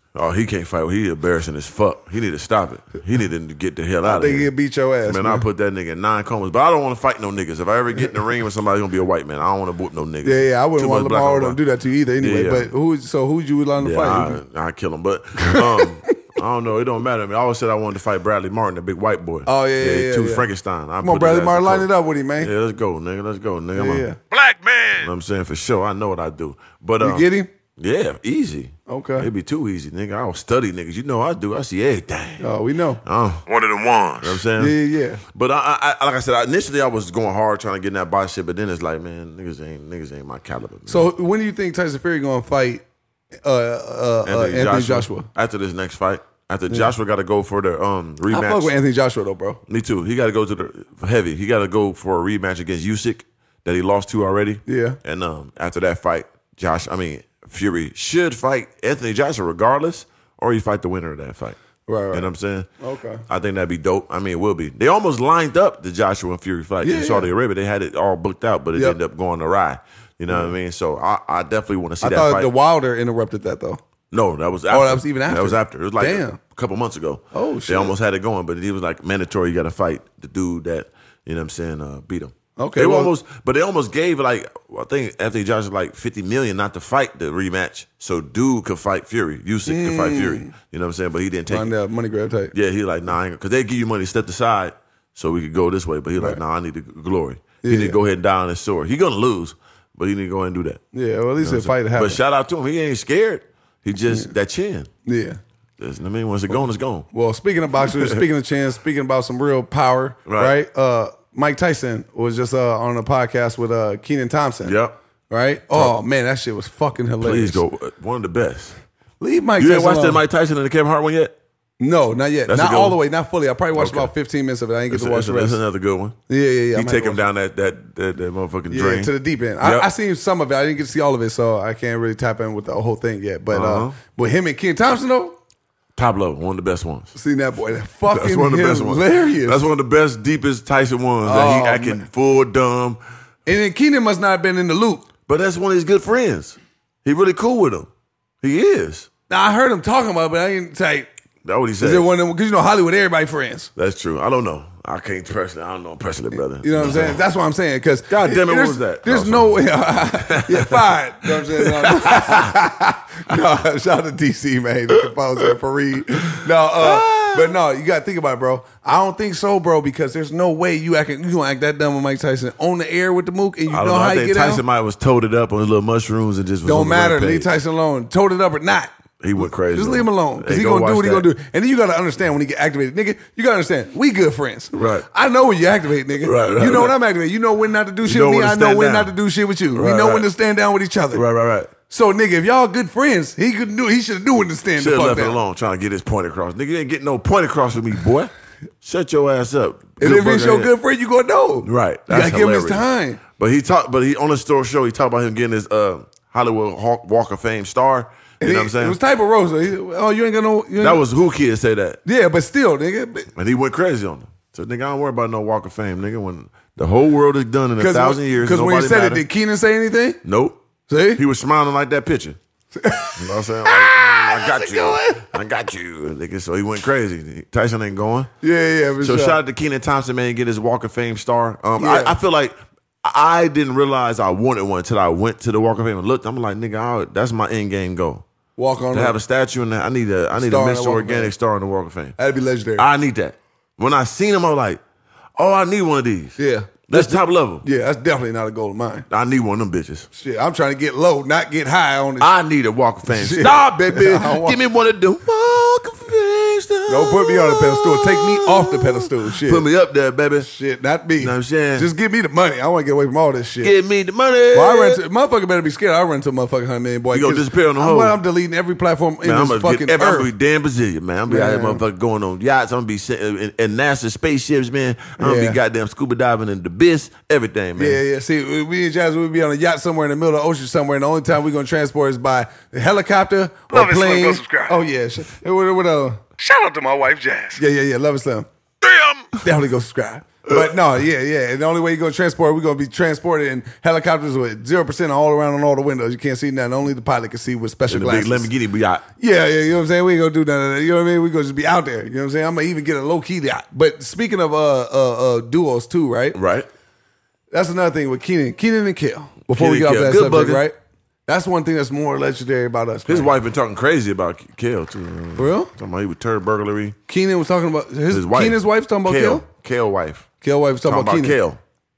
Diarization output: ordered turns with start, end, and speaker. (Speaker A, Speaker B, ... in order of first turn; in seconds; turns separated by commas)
Speaker A: 0.1-4.5, Speaker B: 4.0-5.4, Speaker A: 5.0-11.6, Speaker B: 10.2-14.4, Speaker A: 12.2-12.7, Speaker A: 13.8-24.1, Speaker B: 15.4-16.1, Speaker B: 19.4-20.4, Speaker B: 21.0-22.5, Speaker B: 23.7-24.2, Speaker C: 24.3-25.1, Speaker A: 25.0-27.3, Speaker B: 27.0-27.5, Speaker A: 27.8-32.5, Speaker B: 28.9-29.3, Speaker B: 32.4-33.0, Speaker A: 33.0-33.5, Speaker C: 33.5-34.4, Speaker A: 34.2-34.8, Speaker B: 34.6-35.2, Speaker A: 35.3-41.1, Speaker B: 40.9-42.8, Speaker B: 43.4-45.3, Speaker A: 44.2-48.7, Speaker B: 48.3-49.6, Speaker A: 49.7-61.6, Speaker B: 54.6-55.0, Speaker B: 61.9-62.3, Speaker A: 62.1-62.7, Speaker B: 62.8-63.2, Speaker A: 63.3-72.5, Speaker B: 66.8-67.3, Speaker B: 70.3-70.5, Speaker B: 72.0-73.8, Speaker A: 74.1-91.7, Speaker B: 74.7-76.4, Speaker B: 77.3-77.9, Speaker B: 82.6-83.1, Speaker B: 89.7-90.5, Speaker B: 91.5-92.5, Speaker A: 92.5-100.8, Speaker B: 97.6-98.0, Speaker B: 100.9-102.2, Speaker A: 101.4-104.9, Speaker B: 105.0-105.4, Speaker A: 105.8-107.0, Speaker B: 107.1-114.8, Speaker A: 107.8-108.2, Speaker A: 110.2-110.5, Speaker A: 114.6-115.0, Speaker B: 115.3-117.6, Speaker A: 117.2-118.8, Speaker B: 119.2-120.2, Speaker A: 119.6-121.3, Speaker B: 121.8-125.6, Speaker A: 122.5-123.0, Speaker A: 123.7-124.1, Speaker A: 124.9-126.2, Speaker B: 126.3-127.2, Speaker A: 126.7-129.9, Speaker B: 128.7-135.4, Speaker A: 133.5-134.0, Speaker A: 135.9-137.1, Speaker B: 137.1-139.6, Speaker A: 138.1-143.0, Speaker B: 141.2-142.1, Speaker B: 143.4-145.1, Speaker A: 145.3-147.9, Speaker A: 148.4-149.1, Speaker B: 149.3-151.1, Speaker A: 151.4-152.1, Speaker B: 151.8-153.7, Speaker A: 153.8-157.2, Speaker B: 156.5-174.6, Speaker A: 158.1-162.6, Speaker A: 166.8-167.5, Speaker A: 173.7-177.5, Speaker B: 176.6-191.2, Speaker A: 179.2-181.3, Speaker A: 184.7-185.1, Speaker A: 186.2-186.9, Speaker A: 188.0-189.1, Speaker A: 189.7-190.3, Speaker A: 191.1-191.7, Speaker B: 191.9-195.4, Speaker A: 194.8-200.7, Speaker B: 200.0-203.2, Speaker A: 201.6-209.0, Speaker B: 208.4-211.0, Speaker A: 210.8-212.0, Speaker B: 212.0-213.3, Speaker A: 213.3-219.2, Speaker B: 217.8-220.2, Speaker A: 220.2-220.6, Speaker B: 220.9-221.2, Speaker A: 221.1-222.4, Speaker B: 222.7-225.3, Speaker A: 223.2-228.3, Speaker B: 228.4-229.4, Speaker A: 229.0-238.2, Speaker B: 231.8-232.2, Speaker B: 238.6-239.2, Speaker A: 238.9-242.2, Speaker B: 240.3-241.3, Speaker B: 242.2-242.9, Speaker A: 242.8-244.8, Speaker A: 245.4-247.6, Speaker B: 246.4-249.1, Speaker A: 249.1-250.1, Speaker B: 250.1-252.3, Speaker A: 252.2-260.5, Speaker B: 253.1-254.6, Speaker B: 256.9-259.6, Speaker B: 260.4-263.7, Speaker A: 261.2-261.9, Speaker A: 263.6-265.0, Speaker B: 264.5-270.3, Speaker A: 267.1-268.1, Speaker A: 269.2-278.0, Speaker B: 271.3-271.8, Speaker B: 275.2-275.6, Speaker B: 277.8-286.3, Speaker C: 283.7-284.8, Speaker C: 286.4-287.6, Speaker B: 287.5-288.5, Speaker C: 288.8-289.3, Speaker B: 289.4-298.5, Speaker A: 297.9-299.0, Speaker B: 299.2-306.4, Speaker A: 306.3-306.7, Speaker B: 307.5-310.7, Speaker A: 309.5-310.6, Speaker B: 311.3-313.3, Speaker A: 313.1-316.9, Speaker B: 315.4-315.7, Speaker B: 317.1-319.4, Speaker A: 318.1-320.2, Speaker B: 320.4-321.4, Speaker A: 320.8-321.6